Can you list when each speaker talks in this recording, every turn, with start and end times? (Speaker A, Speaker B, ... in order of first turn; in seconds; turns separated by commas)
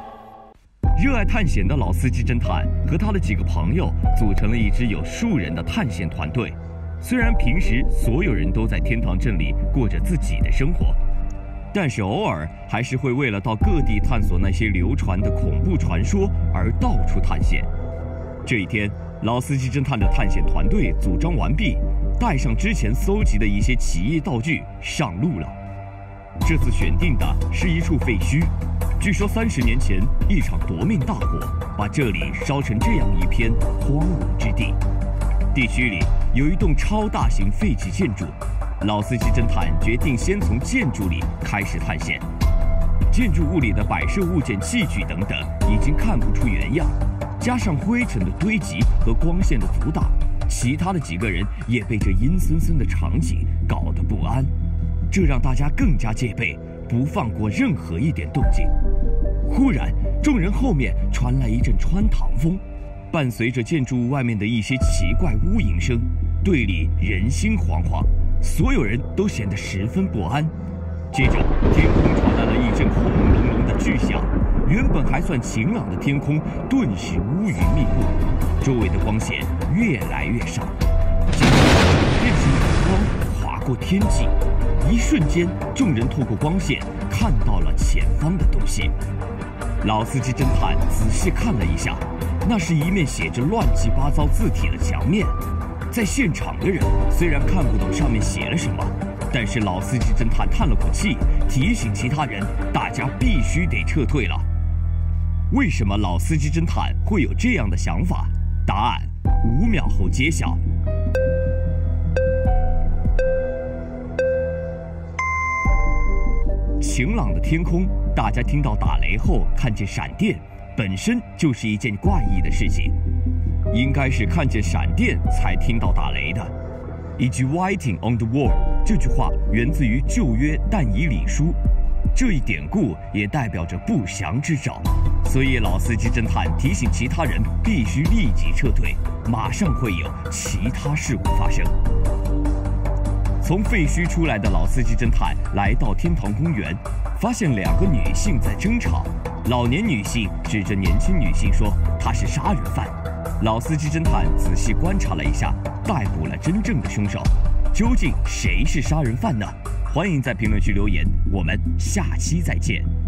Speaker A: 0.9-11.0, Speaker A: 11.7-17.7, Speaker A: 18.4-25.6, Speaker A: 26.4-34.8, Speaker A: 35.5-42.2, Speaker A: 43.1-54.5, Speaker A: 55.1-58.7, Speaker A: 59.5-70.5, Speaker A: 71.1-80.8, Speaker A: 81.3-88.9, Speaker A: 89.8-95.4, Speaker A: 95.9-104.5, Speaker A: 105.5-110.6, Speaker A: 116.8-122.9, Speaker A: 123.7-126.5, Speaker A: 127.2-131.6, Speaker A: 132.1-141.8, Speaker A: 143.4-162.9